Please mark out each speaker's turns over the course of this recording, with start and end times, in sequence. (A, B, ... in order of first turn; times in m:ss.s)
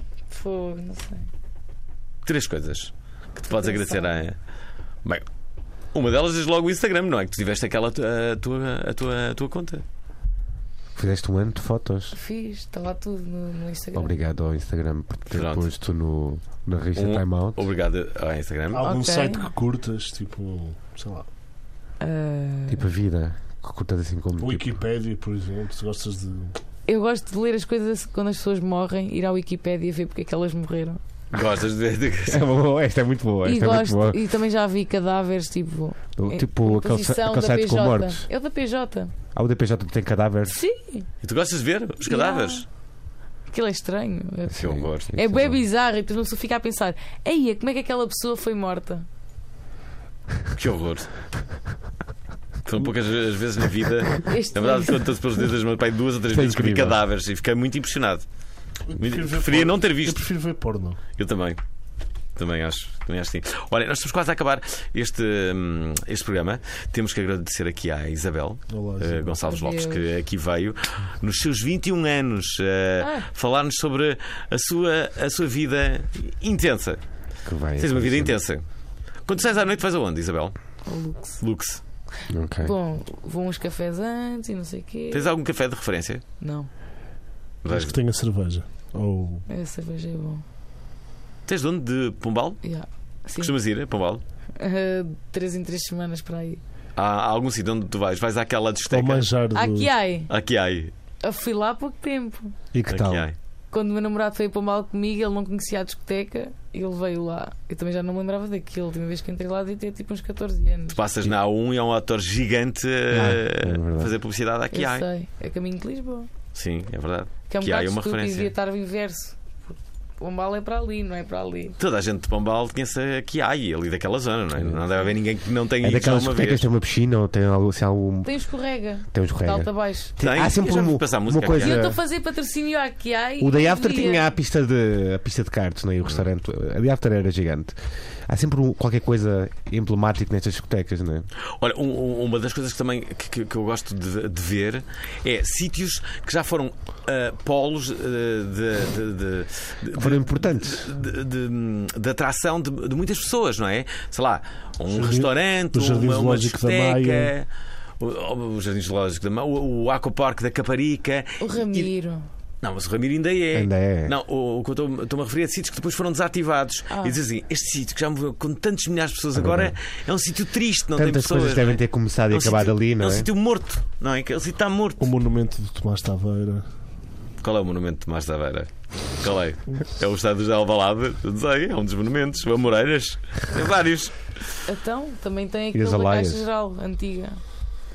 0:00.3-0:01.3 A
0:02.2-0:04.4 B
0:03.5-0:04.2 A
0:05.9-0:09.8 B
0:11.0-0:12.2 C
0:12.1-0:14.2 A
0:13.9-0:17.6 C
0:15.3-0:15.7 B
0:17.0-0:18.8 B
0:18.7-0:21.3 D
0:18.8-0:19.5 A
0:22.0-0:22.8 A
0:22.7-0:24.8 C
0:24.4-0:26.6 D
0:26.9-0:31.0 A
0:31.3-0:32.5 B
0:32.3-0:34.2 C
0:33.4-0:39.1 A
0:36.2-0:38.3 C
0:39.4-0:40.6 C
0:40.5-0:41.1 A
0:41.2-0:42.7 B
0:42.1-0:42.7 A
0:43.5-0:49.1 A
0:44.5-0:45.6 C
0:44.6-0:45.2 B
0:50.5-0:51.1 B
0:52.6-0:58.3 B
0:54.2-0:55.0 A
0:56.3-0:57.0 C
0:58.9-1:01.0 D
0:58.9-1:00.2 B
1:01.2-1:01.6 B
1:02.4-1:17.0 B
1:08.7-1:09.4 D
1:09.4-1:10.0 A
1:13.0-1:13.3 A
1:17.5-1:18.4 C
1:17.8-1:18.6 B
1:19.3-1:20.6 B
1:20.9-1:21.4 A
1:21.4-1:21.8 B
1:22.3-1:22.8 C
1:22.6-1:25.3 A
1:25.1-1:26.2 B
1:26.4-1:26.7 A
1:27.6-1:28.0 B
1:27.7-1:29.5 D
1:29.5-1:30.4 A
1:31.5-1:32.6 B
1:32.6-1:33.5 A
1:33.4-1:34.2 B
1:34.6-1:36.6 A
1:37.0-1:39.3 B
1:38.9-1:39.9 D
1:39.5-1:40.3 A
1:40.3-1:40.9 B
1:41.2-1:42.5 A
1:42.7-1:43.3 C
1:42.9-1:43.4 B
1:43.7-1:51.0 A
1:50.9-1:55.1 B
1:53.1-1:54.1 C
1:54.7-1:56.3 A
1:56.5-1:58.5 B
1:57.5-2:01.8 A
2:01.8-2:06.7 B
2:04.6-2:04.8 C
2:05.8-2:08.3 C
2:08.3-2:10.2 A
2:09.1-2:12.0 C
2:10.2-2:11.9 B
2:11.5-2:14.3 A
2:13.4-2:17.8 C
2:18.3-2:21.3 C
2:21.6-2:37.5 B
2:29.9-2:31.0 C
2:34.9-2:37.3 D
2:38.0-2:41.9 B
2:41.4-2:42.3 A
2:42.6-2:55.1 B
2:43.5-2:44.2 C
2:46.9-2:47.2 A
2:49.4-2:49.8 C
2:51.0-2:53.3 C
2:55.0-2:56.7 D
2:57.4-3:04.2 B
3:04.6-3:07.4 A
3:05.7-3:06.4 C